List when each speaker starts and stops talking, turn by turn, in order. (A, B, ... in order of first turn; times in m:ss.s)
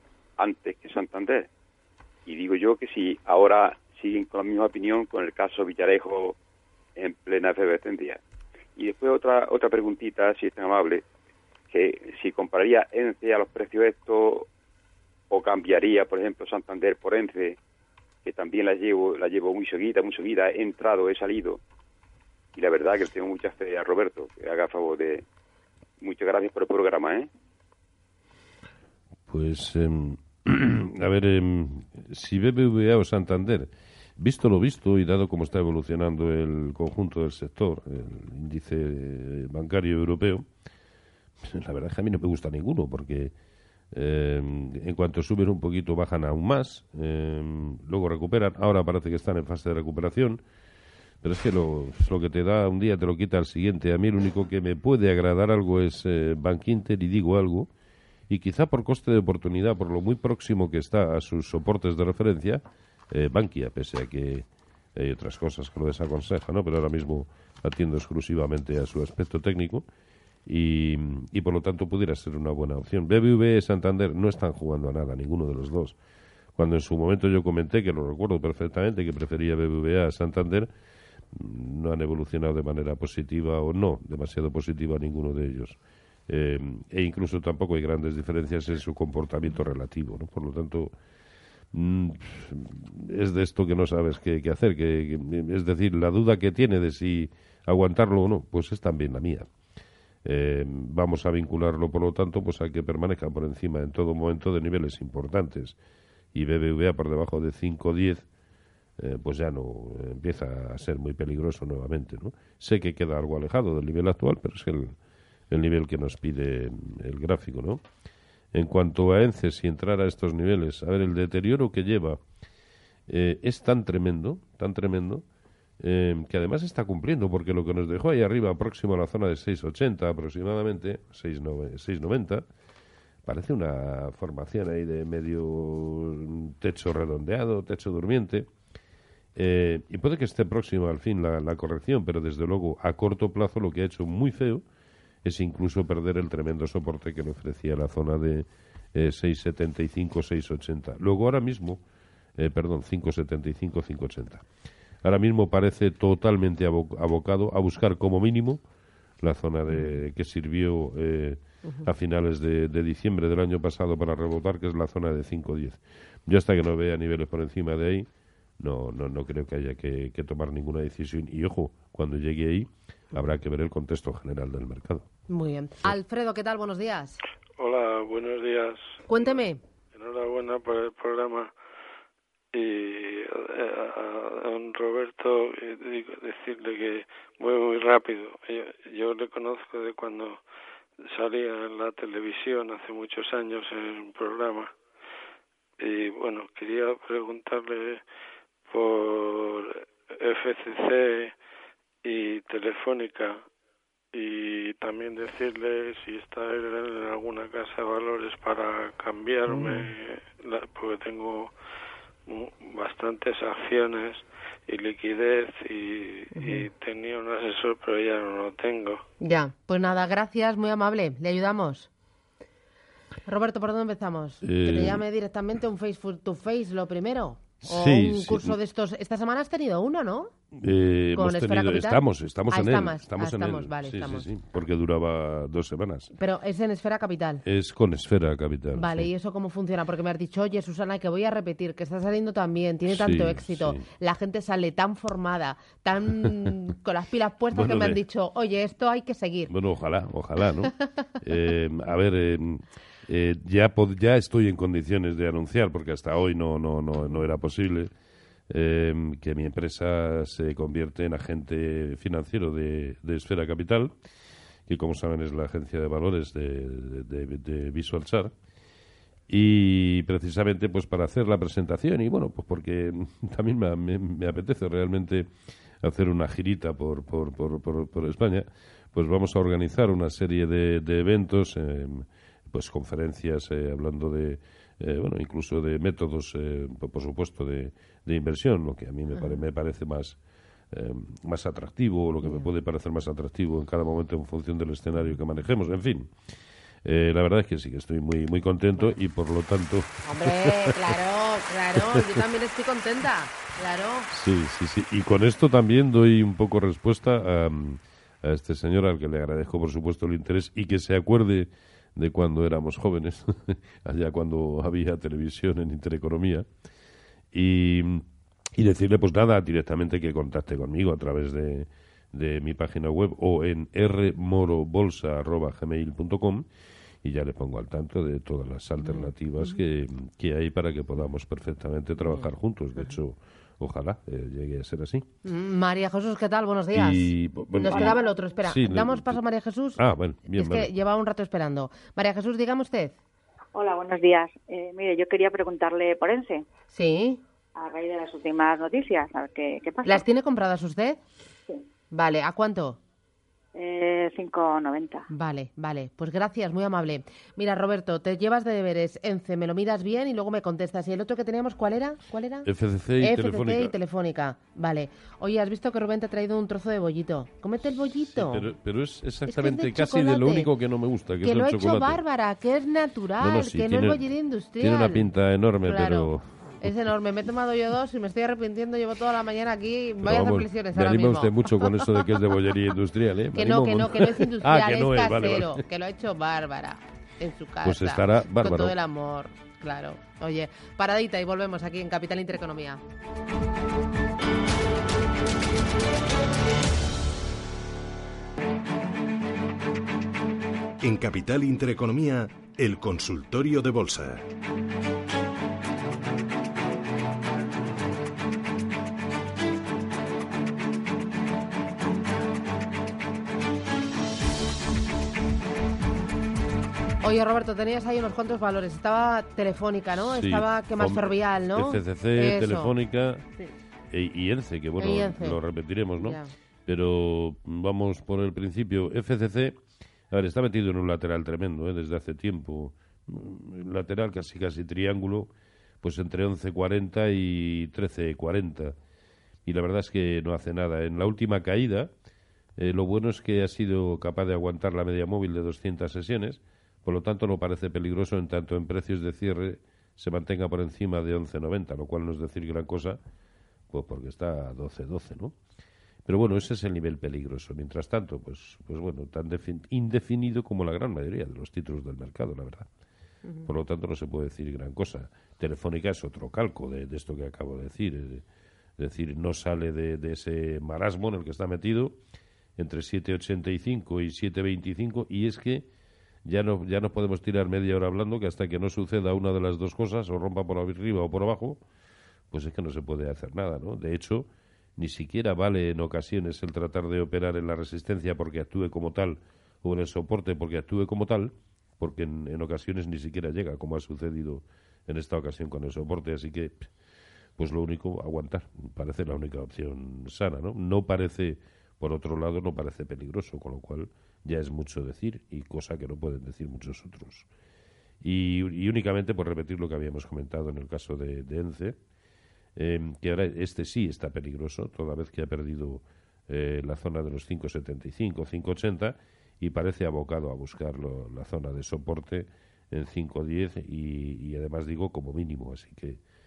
0:00.4-0:01.5 A
0:02.3-0:06.4 A
0:07.0-0:08.2 A
0:08.8-0:11.0 A
0:11.7-0:14.5 A
0:15.3-0:17.6 A
0:18.2-0:21.6 A
0:22.6-0:25.2 A
0:26.0-0:27.3 A
0:29.3-0:40.5 B
0:41.4-0:43.3 B
0:43.9-0:50.4 B
0:51.2-0:57.7 B
0:58.3-1:09.8 B
1:10.5-1:16.0 B
1:16.6-1:20.7 B
1:21.3-1:30.9 B
1:31.7-1:39.5 B
1:40.2-1:45.8 B
1:46.3-1:48.3 B
1:49.0-1:55.0 B
1:55.5-1:57.8 B
1:58.5-2:02.2 B
2:03.1-2:05.2 B
2:05.8-2:12.4 B
2:13.2-2:18.5 B
2:19.4-2:24.6 B
2:25.2-2:31.8 B
2:32.4-2:34.5 B
2:35.0-2:38.6 B
2:39.2-2:48.1 B
2:48.6-2:55.1 B
2:55.3-2:57.2 C
2:57.6-2:59.3 D
2:59.1-2:59.6 C
2:59.9-3:01.5 D
3:02.5-3:10.4 D
3:11.0-3:14.7 D
3:15.8-3:18.0 D
3:18.7-3:21.3 D
3:22.0-3:23.5 D
3:24.1-3:31.5 D
3:29.6-3:29.8 C
3:32.3-3:39.0 D
3:36.4-3:36.6 C
3:39.2-3:41.9 C
3:43.3-3:50.3 C
3:44.4-3:45.0 B
3:47.6-3:48.6 B
3:50.5-3:56.1 B
3:51.2-3:54.3 C
3:56.2-3:57.4 C
3:57.4-3:59.1 B
3:58.8-4:09.5 C
4:02.9-4:03.8 B
4:07.5-4:08.0 B
4:09.5-4:17.9 B
4:18.5-4:23.9 B
4:24.7-4:28.3 B
4:29.3-4:50.2 B
4:50.7-4:56.1 B
4:56.8-5:01.0 B
5:00.0-5:04.1 C
5:01.8-5:02.2 B
5:04.1-5:16.5 B
5:17.3-5:26.5 B
5:27.0-5:35.1 B
5:28.8-5:29.1 C
5:35.2-5:43.0 C
5:36.7-5:39.2 B
5:37.7-5:38.0 E
5:39.8-5:40.7 B
5:43.5-5:46.4 E
5:46.7-5:47.2 C
5:47.6-5:50.0 E
5:49.8-5:51.0 C
5:51.9-5:52.8 C
5:53.6-5:55.1 E
5:55.1-6:02.5 C
6:02.4-6:03.7 B
6:03.0-6:08.5 C
6:08.1-6:12.0 B
6:09.3-6:10.5 C
6:11.2-6:15.1 C
6:13.2-6:16.7 B
6:15.6-6:21.7 C
6:20.0-6:25.6 B
6:23.3-6:32.8 C
6:27.6-6:28.8 B
6:40.8-6:44.3 F
6:57.0-7:02.8 C
7:00.1-7:03.2 B
7:03.9-7:09.6 B
7:04.8-7:05.4 C
7:06.0-7:06.3 C
7:10.1-7:15.3 B
7:15.8-7:18.8 B
7:19.4-7:21.9 B
7:22.6-7:33.0 B
7:33.7-7:35.4 B
7:36.1-7:42.7 B
7:43.5-7:48.2 B
7:48.8-7:52.0 B
7:52.6-7:55.7 B
7:56.2-8:01.6 B
8:02.3-8:16.7 B
8:17.4-8:27.3 B
8:28.0-8:31.8 B
8:32.6-8:46.0 B